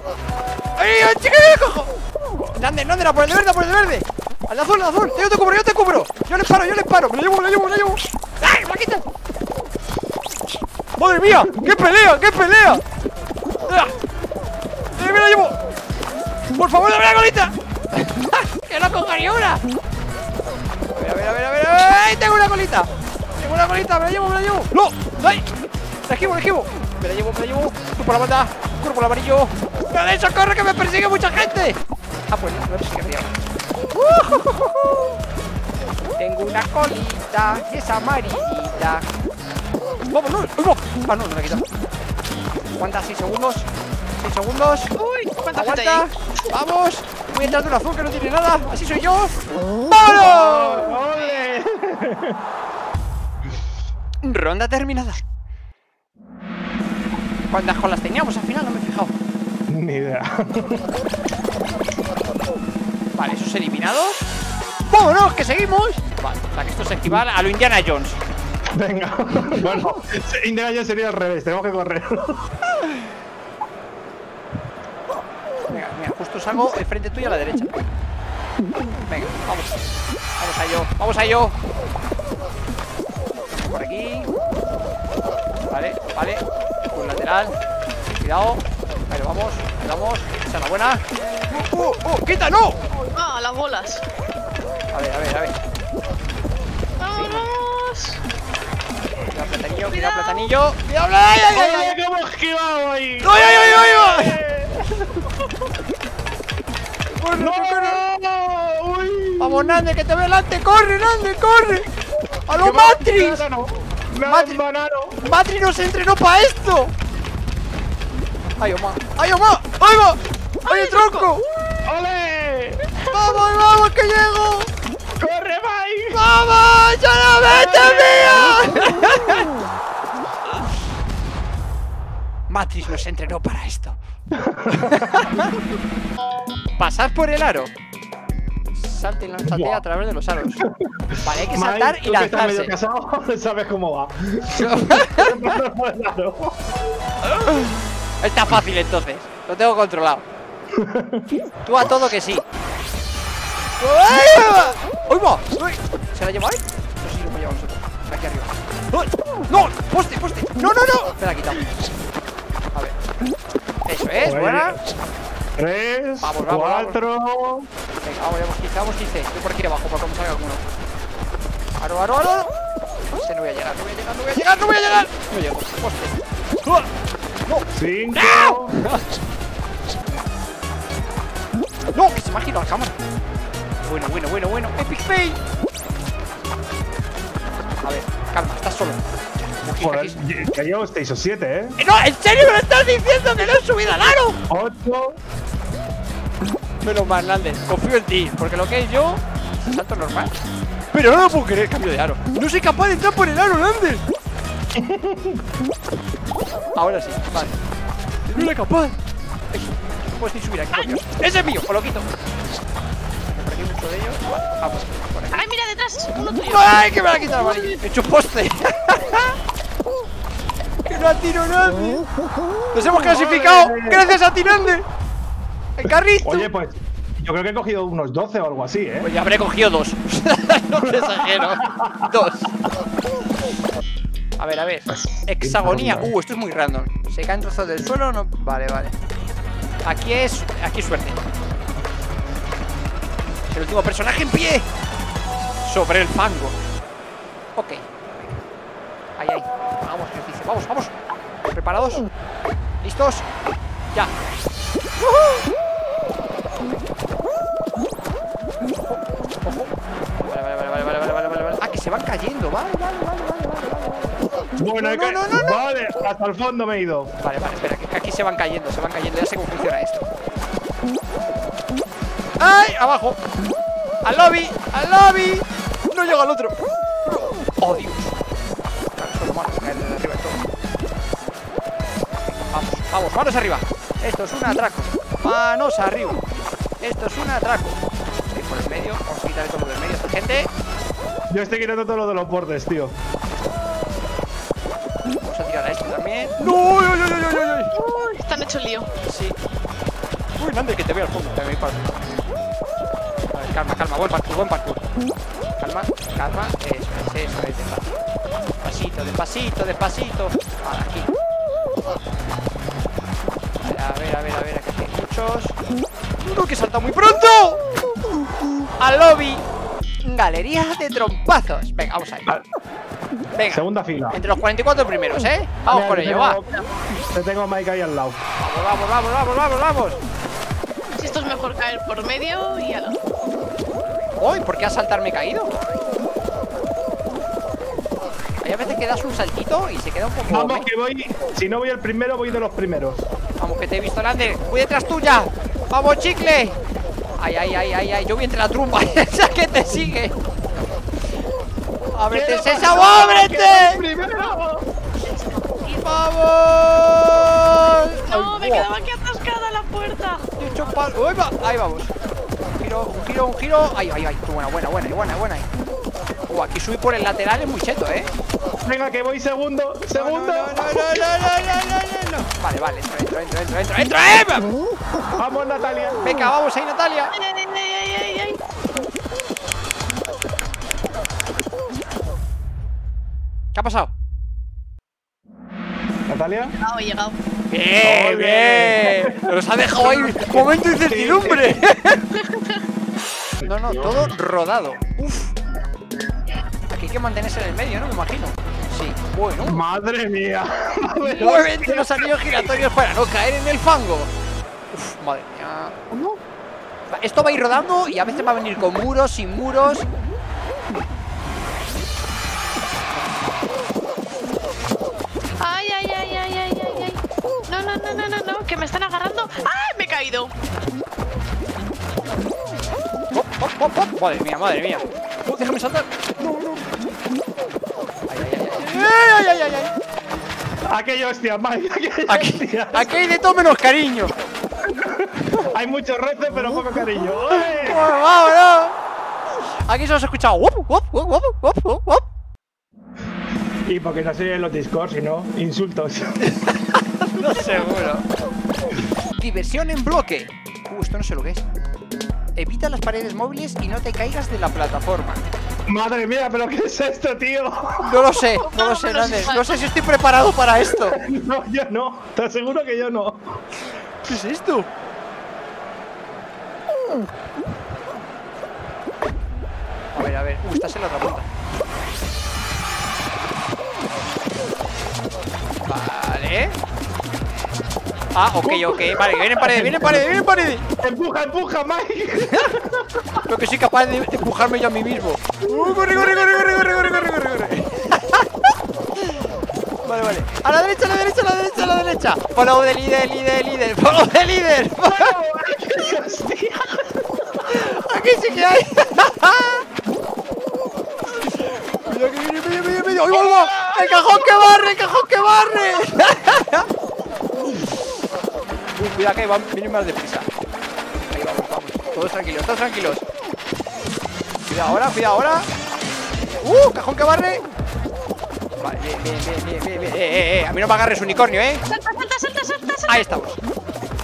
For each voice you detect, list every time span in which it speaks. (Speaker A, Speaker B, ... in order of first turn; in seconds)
Speaker A: 0.8-9.1, 10.9-12.8, 13.7-13.9, 14.9-15.6, 16.5-19.6, 20.9-33.4, 33.9-35.0, 36.2-39.0, 40.1-41.7, 42.8-44.9, 45.5-50.9, 54.2-55.2, 57.5-59.1, 63.1-64.2, 64.9-68.2, 75.7-77.7, 79.0-81.5, 83.5-84.3, 85.7-87.5, 88.1-92.8, 94.9-95.5, 97.1-97.5, 99.2-102.0, 103.2-104.4, 107.1-108.0, 109.4-111.9, 112.5-113.4, 114.2-114.6, 115.2-116.9, 118.6-121.4, 123.1-124.7, 126.1-129.5, 132.5-134.0, 134.8-135.6, 136.8-137.7, 138.7-140.6, 141.2-142.7, 144.5-145.4, 147.2-150.2, 151.6-152.4, 153.8-161.7, 163.8-164.8, 166.2-167.0, 168.0-170.6, 171.8-172.5, 173.1-176.9, 177.4-179.0, 181.9-182.9, 183.8-185.4, 187.8-189.0, 189.6-190.2, 191.8-194.4, 196.8-200.3, 200.9-204.0, 206.7-207.6, 208.3-208.9, 209.5-212.1, 213.3-215.5, 216.3-219.3, 220.8-222.1, 222.7-224.8, 225.8-226.5, 229.0-232.5, 234.4-238.9, 239.8-241.2, 243.5-244.7, 245.6-246.6, 247.6-247.8, 249.2-250.9, 251.5-252.1, 252.8-253.2, 255.0-255.4, 259.4-265.6, 267.2-270.1, 272.4-273.2, 274.0-276.6, 277.6-278.2, 278.9-280.4, 282.5-286.2, 286.8-290.5, 295.2-297.7, 299.1-299.4, 300.4-302.2, 303.3-304.8, 305.6-308.0, 308.6-311.1, 313.6-315.5, 316.2-317.6, 318.8-319.4, 320.0-322.3, 323.3-326.4, 328.4-330.0, 331.1-331.4, 334.2-335.5, 338.4-340.7, 343.4-346.6, 347.2-350.1, 351.9-353.8, 355.6-358.7, 360.4-361.9, 362.6-365.5, 366.3-368.1, 369.9-374.5, 376.0-377.1, 383.5-383.9, 387.5-392.1, 393.4-395.3, 396.7-399.6, 401.2-404.1, 404.7-405.8, 406.9-409.9, 423.1-426.7, 428.1-429.7, 432.1-434.1, 437.3-438.7, 439.6-442.0, 446.7-448.1, 449.1-451.4, 452.4-455.2, 457.8-461.0, 464.0-464.7, 469.9-471.3, 475.6-476.6, 478.1-480.6, 483.2-488.5, 489.8-495.1, 497.5-499.6, 501.4-506.7, 507.5-507.8, 508.7-510.3, 511.1-513.0, 514.5-515.5, 516.4-517.4, 518.6-521.6, 522.9-523.4
Speaker B: 45.0-46.1, 51.0-51.6, 92.9-94.0, 97.0-98.2, 99.9-100.5, 120.6-121.3, 215.3-217.8, 297.7-298.9, 331.0-333.0, 354.1-354.3, 355.0-355.5, 358.1-360.3, 377.1-378.4, 386.6-387.2, 392.1-392.6, 401.0-401.3, 415.4-420.3, 458.3-459.6, 521.7-523.0
Speaker C: 50.0-52.4, 59.7-60.9, 68.7-72.4, 101.5-105.3, 107.4-109.8, 112.6-115.2, 121.8-123.0, 125.2-126.2, 134.3-135.5, 139.4-139.8, 140.6-146.6, 150.7-151.3, 164.2-164.8, 165.6-167.7, 177.7-178.8, 189.8-191.8, 194.5-195.2, 204.7-205.4, 222.9-224.1, 226.2-229.1, 230.8-232.1, 234.9-236.1, 264.6-267.1, 291.3-292.9, 323.5-324.2, 325.6-328.2, 340.3-343.0, 352.1-354.7, 368.6-371.2, 375.1-376.3, 386.1-386.5, 387.8-391.6, 393.7-394.1, 399.4-402.6, 430.6-432.9, 434.7-437.9, 443.6-446.4, 455.7-458.1, 460.7-463.3, 478.4-480.1, 480.8-483.2, 485.5-486.6, 494.8-497.3, 503.1-504.5